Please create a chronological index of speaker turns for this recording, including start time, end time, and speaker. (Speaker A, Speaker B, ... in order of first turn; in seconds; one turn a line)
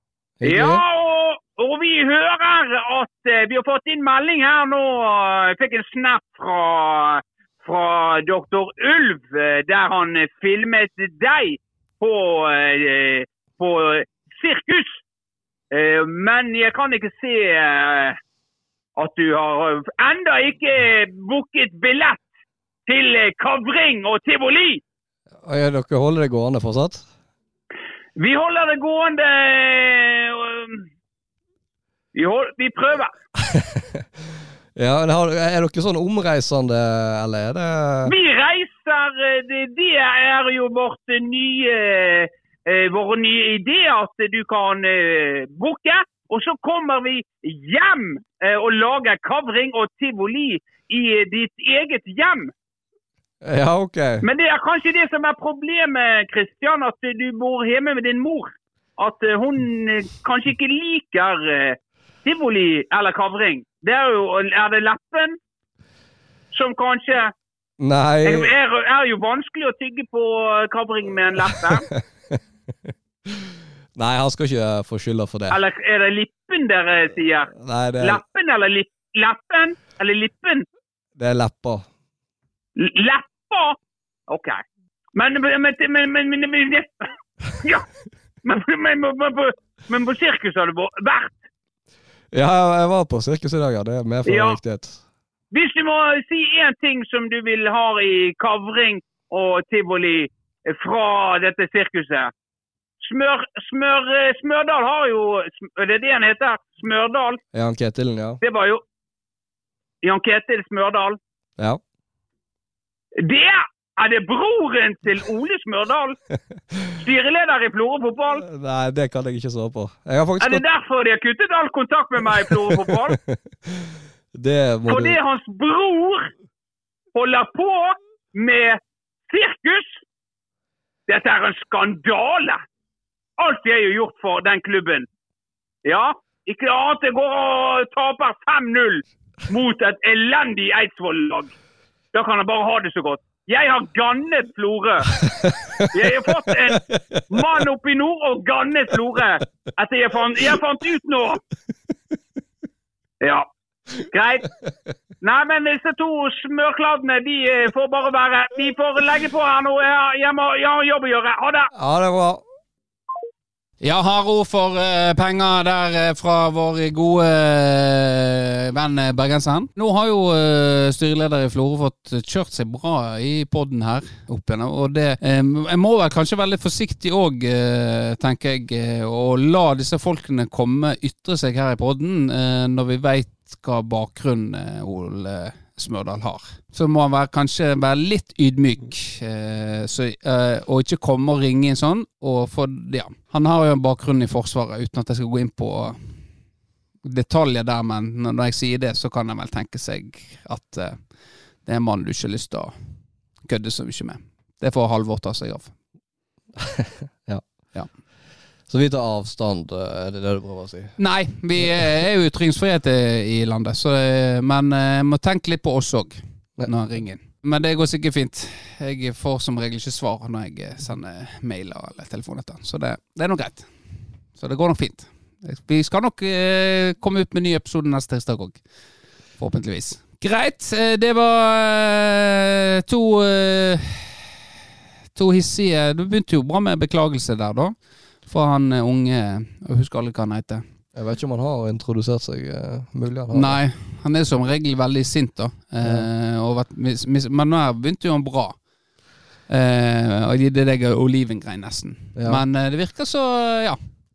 Speaker A: 0.4-0.8
Speaker B: 0.4-15.0
Speaker B: 15.7-18.2
Speaker B: 18.9-22.2
Speaker B: 22.9-24.8
Speaker A: 25.4-27.1
Speaker B: 28.1-30.8
Speaker B: 32.1-33.1
Speaker A: 33.4-34.0
Speaker A: 34.8-38.1
Speaker B: 38.0-52.5
Speaker A: 53.4-54.2
Speaker B: 54.2-65.4
Speaker B: 66.5-67.3
Speaker A: 67.8-68.5
Speaker B: 68.2-71.9
Speaker A: 71.9-72.4
Speaker A: 73.3-75.6
Speaker B: 75.5-80.6
Speaker A: 77.6-78.2
Speaker A: 81.2-81.8
Speaker B: 82.8-83.8
Speaker B: 84.3-84.6
Speaker B: 85.1-87.8
Speaker B: 88.4-91.4
Speaker A: 92.3-95.0
Speaker B: 94.2-94.6
Speaker B: 95.5-102.3
Speaker B: 103.0-107.4
Speaker A: 107.5-108.4
Speaker B: 108.4-108.8
Speaker B: 110.0-111.2
Speaker B: 113.2-116.2
Speaker B: 117.0-118.4
Speaker A: 118.4-120.6
Speaker B: 120.4-123.2
Speaker A: 122.5-125.2
Speaker B: 124.9-126.3
Speaker B: 127.1-130.0
Speaker B: 131.1-132.6
Speaker B: 133.4-135.1
Speaker B: 135.8-141.5
Speaker B: 142.1-145.2
Speaker A: 145.2-145.9
Speaker B: 145.8-151.4
Speaker A: 146.7-147.2
Speaker B: 153.2-153.5
Speaker B: 154.0-154.5
Speaker B: 155.2-161.7
Speaker A: 161.7-162.4
Speaker C: 163.8-196.2
Speaker C: 197.0-201.1
Speaker C: 201.6-202.7
Speaker C: 203.4-205.7
Speaker A: 206.6-207.4
Speaker A: 208.7-211.0
Speaker C: 211.0-223.7
Speaker C: 224.3-228.6
Speaker C: 229.4-234.3
Speaker C: 235.1-237.7
Speaker C: 238.2-240.6
Speaker A: 240.9-243.6
Speaker C: 243.3-248.6
Speaker C: 249.5-253.8
Speaker A: 252.2-252.4